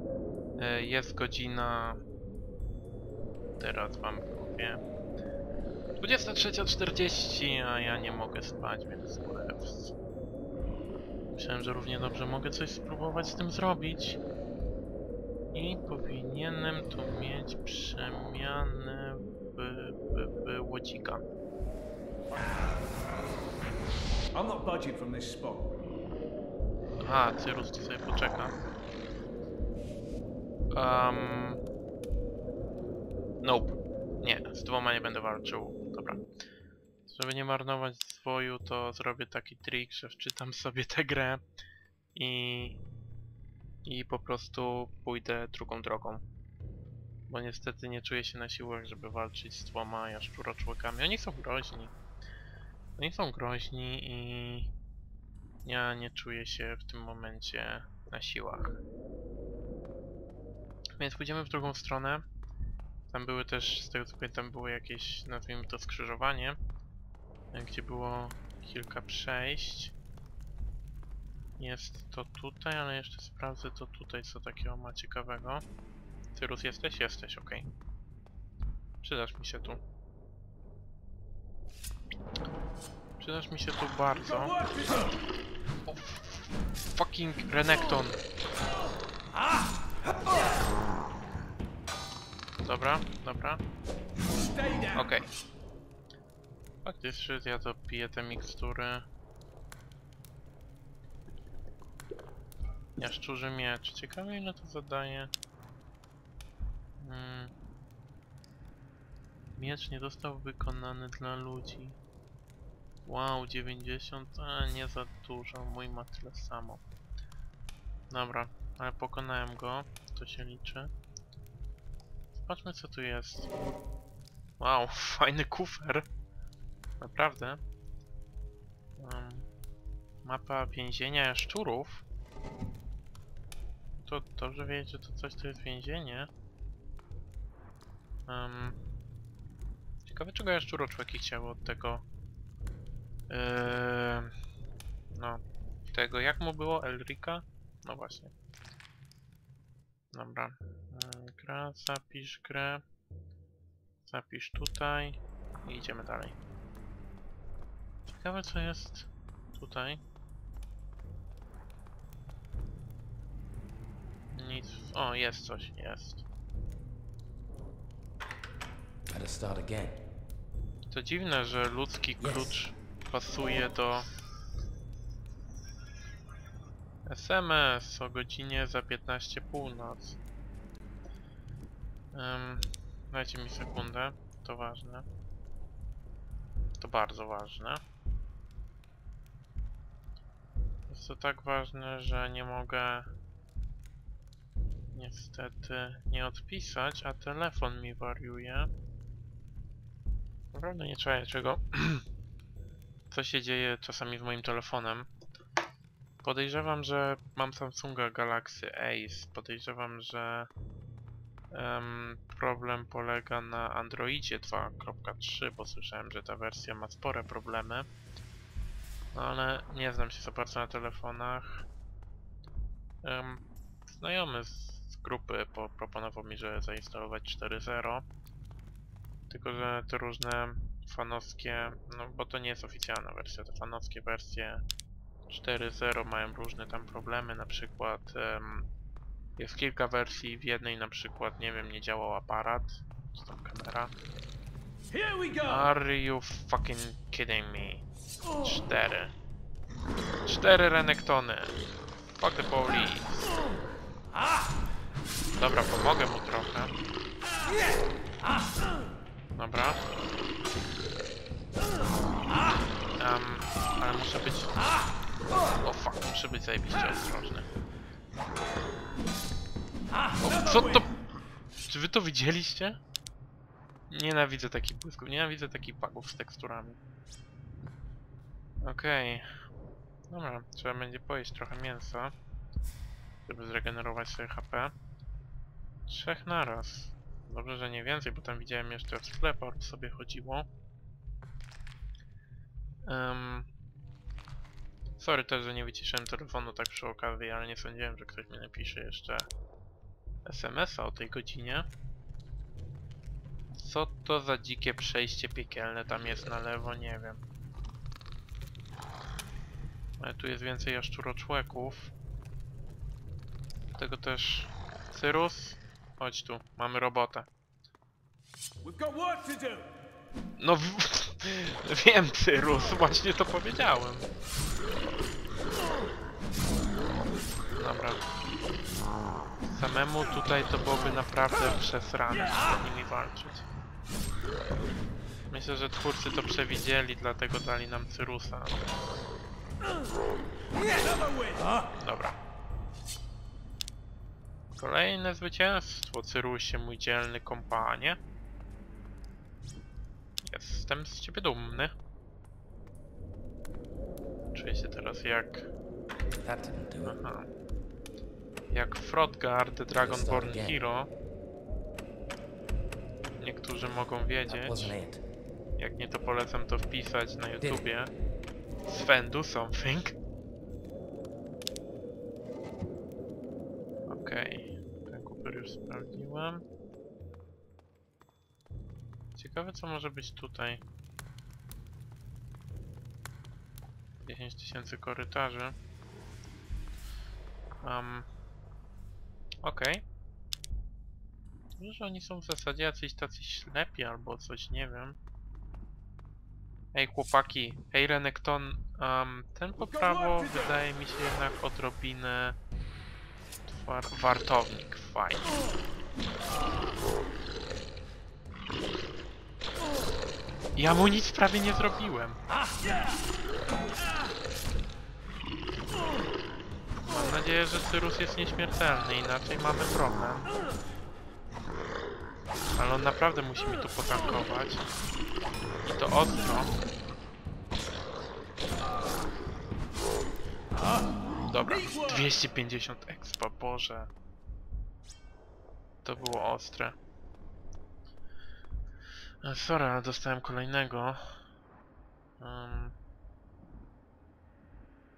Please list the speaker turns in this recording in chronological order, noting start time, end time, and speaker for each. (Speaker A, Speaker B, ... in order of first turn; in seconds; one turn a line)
Speaker A: 0.6-2.0
Speaker A: 3.6-4.8
Speaker A: 6.0-9.9
Speaker A: 11.3-14.2
Speaker A: 15.5-21.2
Speaker B: 22.3-22.9
Speaker B: 24.3-25.8
Speaker A: 27.0-28.6
Speaker A: 30.7-31.6
Speaker A: 33.4-36.2
Speaker A: 37.1-41.4
Speaker A: 42.1-42.8
Speaker A: 43.8-46.2
Speaker A: 47.3-51.9
Speaker A: 53.0-54.7
Speaker A: 55.6-58.8
Speaker A: 61.0-62.2
Speaker A: 63.1-66.6
Speaker A: 67.5-69.9
Speaker A: 71.6-75.6
Speaker A: 76.3-77.7
Speaker A: 79.0-79.8
Speaker A: 83.2-84.7
Speaker B: 84.4-85.1
Speaker A: 85.9-88.2
Speaker A: 92.6-93.6
Speaker B: 94.5-94.9
Speaker A: 94.9-95.3
Speaker A: 96.8-99.0
Speaker A: 103.0-105.3
Speaker A: 107.0-107.5
Speaker A: 109.6-112.0
Speaker A: 113.0-116.8
Speaker A: 118.1-120.9
Speaker A: 122.3-123.5
Speaker A: 124.6-126.1
Speaker A: 127.0-127.6
Speaker A: 129.0-129.5
Speaker A: 130.2-132.0
Speaker A: 134.0-136.3
Speaker A: 138.3-138.8
Speaker A: 140.0-142.0
Speaker A: 143.3-144.3
Speaker A: 145.1-148.3
Speaker A: 150.1-152.8
Speaker A: 154.0-156.3
Speaker A: 158.1-160.0
Speaker A: 164.3-166.2
Speaker C: 169.1-170.0
Speaker A: 170.9-174.1
Speaker C: 172.2-172.5
Speaker A: 177.0-180.2
Speaker A: 182.1-185.1
Speaker A: 186.8-187.8
Speaker A: 190.9-193.1
Speaker A: 194.9-198.7
Speaker A: 200.5-202.0
Speaker A: 203.1-205.1
Speaker A: 206.2-210.5
Speaker A: 211.5-217.9
Speaker A: 219.1-221.6
Speaker A: 223.0-228.0
Speaker A: 229.3-234.6
Speaker A: 235.3-238.7
Speaker A: 239.4-243.9
Speaker B: 244.9-245.7
Speaker A: 245.4-249.1
Speaker A: 250.2-253.3
Speaker A: 255.4-256.7
Speaker A: 259.3-259.8
Speaker A: 263.0-264.6
Speaker A: 265.6-267.5
Speaker A: 270.2-270.9
Speaker A: 271.6-272.8
Speaker A: 273.9-276.8
Speaker A: 278.6-279.3
Speaker A: 280.1-282.1
Speaker A: 283.2-284.7
Speaker A: 285.9-290.5
Speaker A: 292.8-293.5
Speaker A: 295.0-299.3
Speaker A: 300.2-301.7
Speaker A: 303.5-307.2
Speaker A: 310.0-311.9
Speaker A: 313.8-317.3
Speaker B: 318.6-319.7
Speaker A: 320.4-324.1
Speaker A: 327.5-328.0
Speaker A: 329.4-333.4
Speaker A: 335.3-338.6
Speaker B: 341.0-341.5
Speaker A: 341.8-342.1
Speaker A: 344.6-348.0
Speaker A: 350.2-351.7
Speaker A: 354.3-355.5
Speaker C: 356.0-357.0
Speaker A: 356.8-357.3
Speaker A: 358.5-360.9
Speaker C: 359.8-360.6
Speaker A: 363.2-364.8
Speaker C: 364.3-365.0
Speaker A: 365.6-367.9
Speaker C: 367.4-367.6
Speaker A: 368.7-369.9
Speaker A: 373.9-376.4
Speaker A: 379.1-380.6
Speaker A: 384.0-385.5
Speaker A: 387.6-388.1
Speaker A: 389.4-389.8
Speaker A: 391.6-395.0
Speaker A: 396.7-402.4
Speaker A: 403.5-405.4
Speaker A: 410.6-412.2
Speaker A: 416.9-420.3
Speaker A: 422.5-424.7
Speaker A: 425.6-426.5
Speaker A: 431.3-433.9
Speaker A: 435.8-436.8
Speaker A: 439.2-441.2
Speaker A: 442.2-442.7